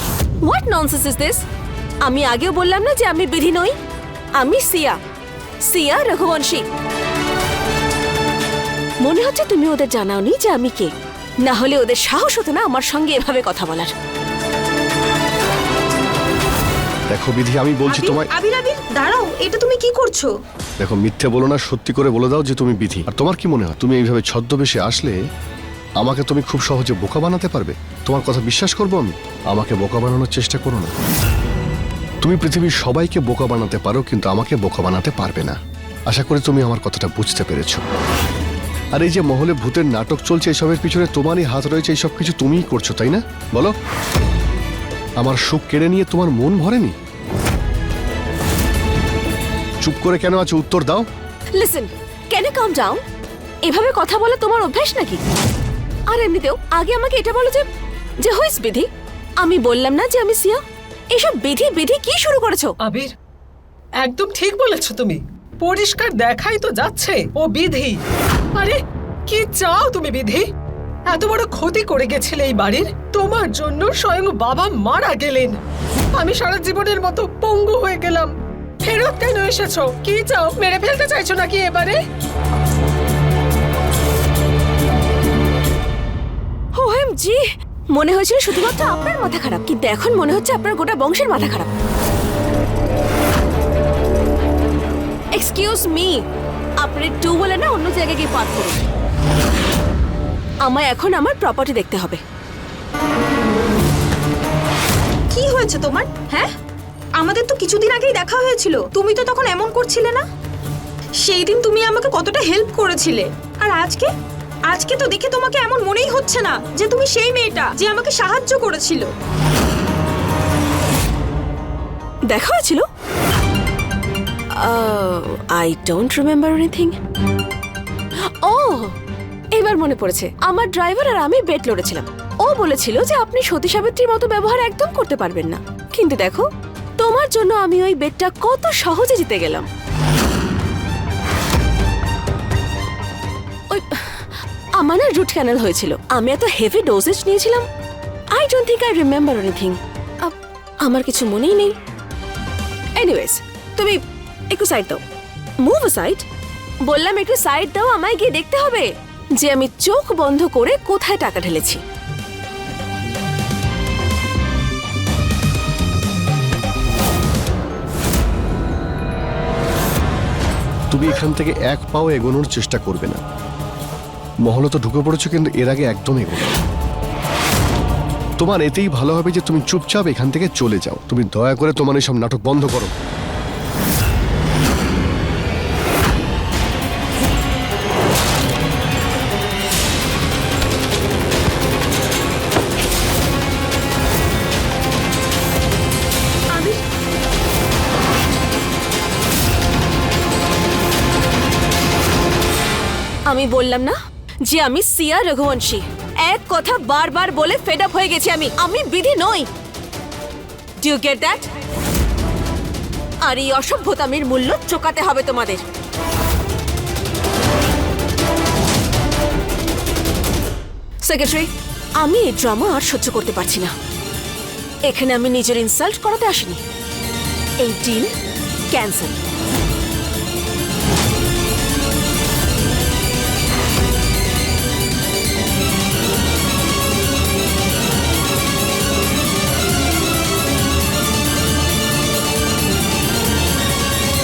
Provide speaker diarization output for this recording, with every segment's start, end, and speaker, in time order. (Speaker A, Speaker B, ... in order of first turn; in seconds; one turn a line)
Speaker A: 0.5-1.4
Speaker A: 2.0-3.7
Speaker A: 4.4-5.0
Speaker A: 5.7-6.6
Speaker A: 9.0-10.9
Speaker A: 11.4-13.9
Speaker B: 17.1-18.3
Speaker C: 17.9-20.3
Speaker B: 20.8-25.2
Speaker B: 26.0-30.9
Speaker B: 32.2-37.9
Speaker B: 38.9-43.7
Speaker B: 45.2-47.0
Speaker B: 49.8-51.1
Speaker A: 51.6-53.0
Speaker A: 53.6-55.2
Speaker A: 56.1-57.7
Speaker A: 58.2-58.9
Speaker A: 59.4-60.6
Speaker A: 61.1-62.7
Speaker D: 62.8-63.1
Speaker D: 64.0-68.0
Speaker D: 68.5-70.5
Speaker D: 71.1-75.6
Speaker D: 76.2-78.3
Speaker D: 78.8-82.0
Speaker A: 86.8-91.7
Speaker A: 95.3-96.2
Speaker A: 96.8-98.8
Speaker A: 100.6-102.2
Speaker C: 105.3-106.5
Speaker C: 107.2-110.2
Speaker C: 111.2-114.1
Speaker C: 114.7-119.1
Speaker A: 122.3-122.8
Speaker A: 124.5-127.0
Speaker A: 128.4-128.9
Speaker A: 129.5-136.5
Speaker A: 137.0-139.7
Speaker A: 143.7-144.2
Speaker A: 144.8-147.6
Speaker A: 148.3-151.7
Speaker A: 153.0-154.0
Speaker A: 154.5-155.0
Speaker A: 155.6-156.2
Speaker A: 156.8-161.8
Speaker B: 170.9-173.2
Speaker B: 174.4-176.6
Speaker B: 178.4-182.9
Speaker A: 203.3-209.5
Speaker A: 210.8-211.5
Speaker A: 213.2-215.6
Speaker A: 221.1-221.5
Speaker A: 222.0-223.7
Speaker A: 224.9-226.6
Speaker A: 227.6-228.1
Speaker A: 228.7-229.2